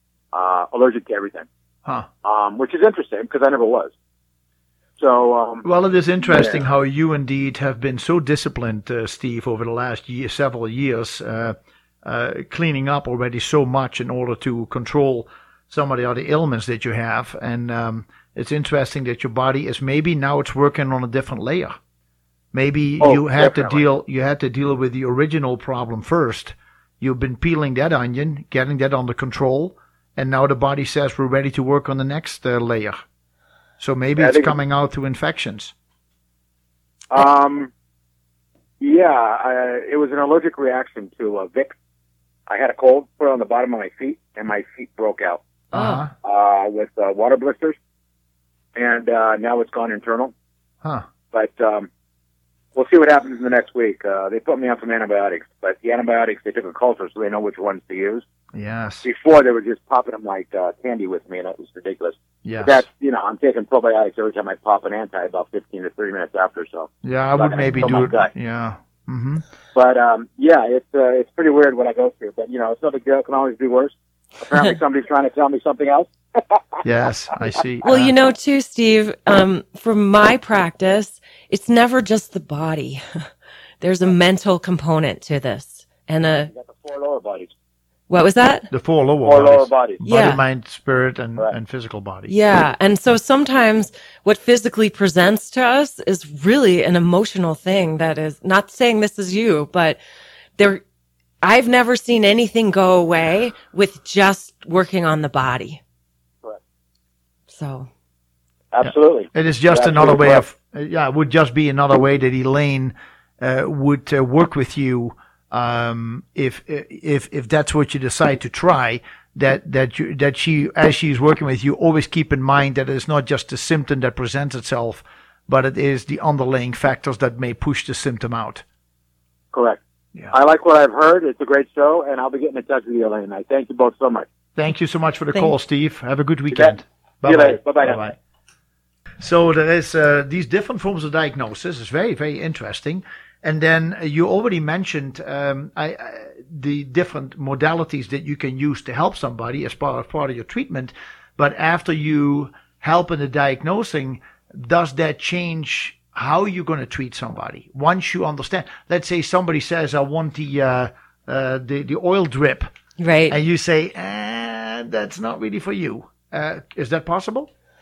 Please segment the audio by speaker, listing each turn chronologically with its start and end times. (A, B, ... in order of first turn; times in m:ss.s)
0:00.3-0:01.5 A
0:02.2-0:03.9 A
0:05.0-0:05.6 A
0:05.6-0:21.8 B
0:06.3-0:06.6 A
0:22.5-0:33.0 B
0:23.0-0:23.8 A
0:33.8-0:35.7 B
0:34.2-0:34.5 A
0:37.1-0:37.7 A
0:38.8-0:41.7 A
0:42.5-0:45.4 A
0:45.7-0:46.0 C
0:45.7-0:46.1 B
0:46.1-0:47.8 A
0:48.7-0:50.3 A
0:51.3-0:51.9 A
0:52.7-0:58.2 A
0:58.5-0:59.0 B
0:59.0-1:08.3 A
1:02.4-1:02.8 B
1:07.0-1:09.4 B
1:07.8-1:08.1 C
1:09.7-1:16.8 A
1:16.8-1:18.1 B
1:17.8-1:23.3 C
1:23.8-1:26.5 C
1:26.5-1:27.5 A
1:28.1-1:28.7 C
1:28.7-1:32.3 B
1:29.2-1:30.0 A
1:30.0-1:30.4 C
1:32.3-1:40.0 C
1:40.6-1:40.8 C
1:41.4-1:45.8 C
1:47.5-1:47.9 C
1:48.7-1:50.4 A
1:48.8-2:08.6 B
2:09.5-2:09.8 A
2:10.3-2:14.2 A
2:14.6-2:18.2 B
2:16.5-2:18.0 A
2:19.2-2:42.7 B
2:43.0-2:43.4 C
2:43.3-2:47.5 B